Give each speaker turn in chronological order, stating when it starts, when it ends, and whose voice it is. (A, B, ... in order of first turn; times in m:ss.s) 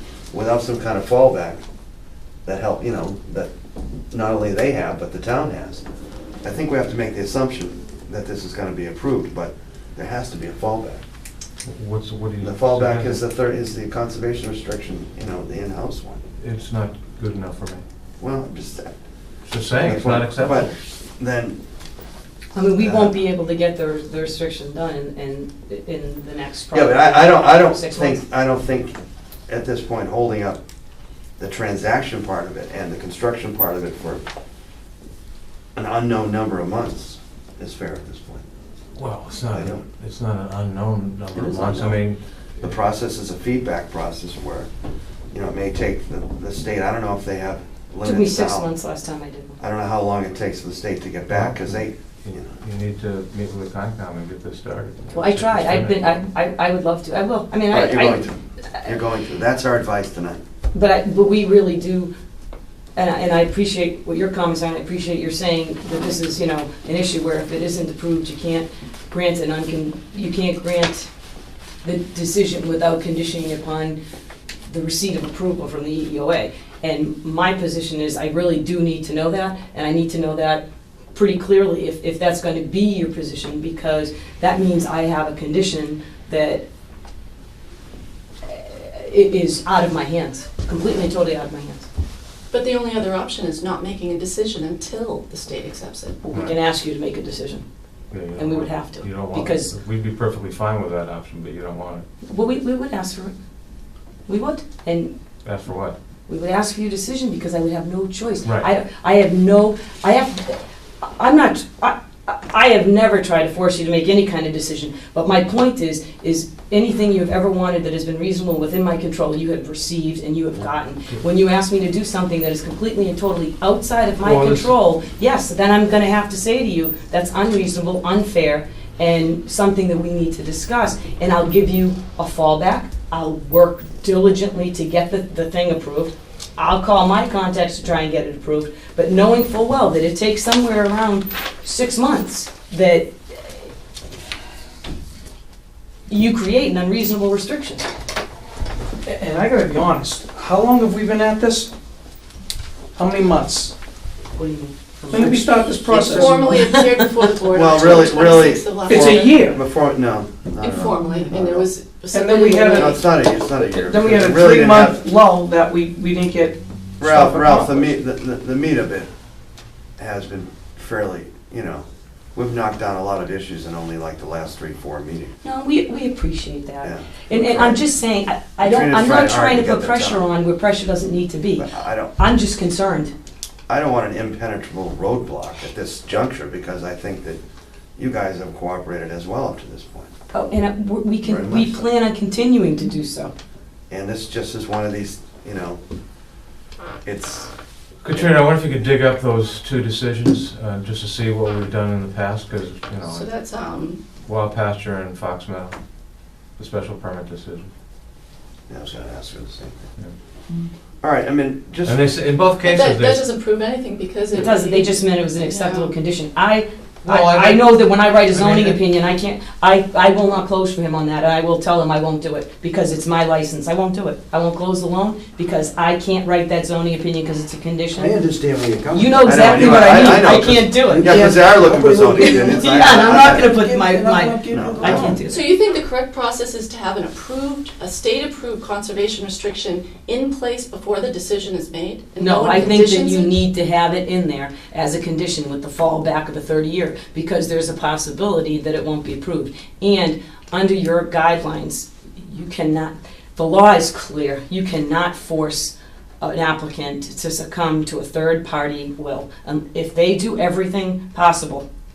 0:00.3-0:01.6 A
0:02.4-0:03.5 A
0:04.1-0:05.8 A
0:06.4-0:11.0 A
0:11.6-0:13.2 B
0:12.4-0:16.2 A
0:16.4-0:17.8 B
0:18.2-0:18.9 A
0:19.4-0:20.7 B
0:19.8-0:21.6 A
0:22.6-0:28.2 C
0:22.8-0:23.1 A
0:26.7-0:29.0 A
0:29.5-0:30.6 A
0:31.4-0:34.2 A
0:35.8-0:38.4 A
0:39.0-0:42.2 B
0:39.5-0:39.8 A
0:41.3-0:42.0 A
0:42.6-0:44.7 A
0:45.3-0:48.7 A
0:48.0-0:49.6 C
0:49.6-0:52.6 A
0:51.3-0:56.0 B
0:55.1-0:58.9 C
0:57.7-1:00.4 A
1:00.7-1:02.1 C
1:03.0-1:11.1 C
1:11.8-1:14.0 C
1:14.6-1:26.6 C
1:28.4-1:31.9 C
1:32.5-1:36.2 D
1:36.2-1:37.6 C
1:38.1-1:42.0 B
1:38.4-1:39.7 C
1:42.3-1:43.3 C
1:44.3-1:45.1 C
1:45.4-1:46.0 B
1:46.3-2:23.5 C
2:04.2-2:04.7 B
2:26.1-2:27.9 C
2:29.0-2:31.7 E
2:33.0-2:33.7 E
2:34.4-2:37.0 C
2:35.1-2:36.7 E
2:35.8-2:39.4 D
2:37.5-2:41.7 A
2:38.8-2:39.6 E
2:40.6-2:43.0 D
2:42.1-2:47.9 E
2:42.7-2:45.0 A
2:47.0-2:49.1 A
2:50.0-2:55.3 A
2:55.4-3:03.1 C
2:56.8-2:57.8 A
2:58.6-3:00.2 A
3:01.6-3:02.2 A
3:03.7-3:07.4 A
3:08.0-3:10.1 A
3:10.3-3:13.3 C
3:11.2-3:11.9 A
3:13.9-3:15.8 A
3:17.0-3:17.5 A
3:18.0-3:23.3 B
3:23.1-3:24.0 D
3:24.2-3:25.8 B
3:26.6-3:27.7 B
3:28.7-3:29.8 A
3:31.0-3:32.0 A
3:31.8-3:33.3 B
3:32.6-3:35.9 D
3:34.3-3:48.2 C
3:37.0-3:37.7 B
3:38.3-3:38.8 B
3:48.0-3:51.2 F
3:48.9-3:51.6 C
3:49.2-3:53.6 A
3:51.1-3:55.2 E
3:52.1-3:55.5 C
3:54.5-3:55.2 A
3:55.2-4:03.3 D
4:02.2-4:21.7 C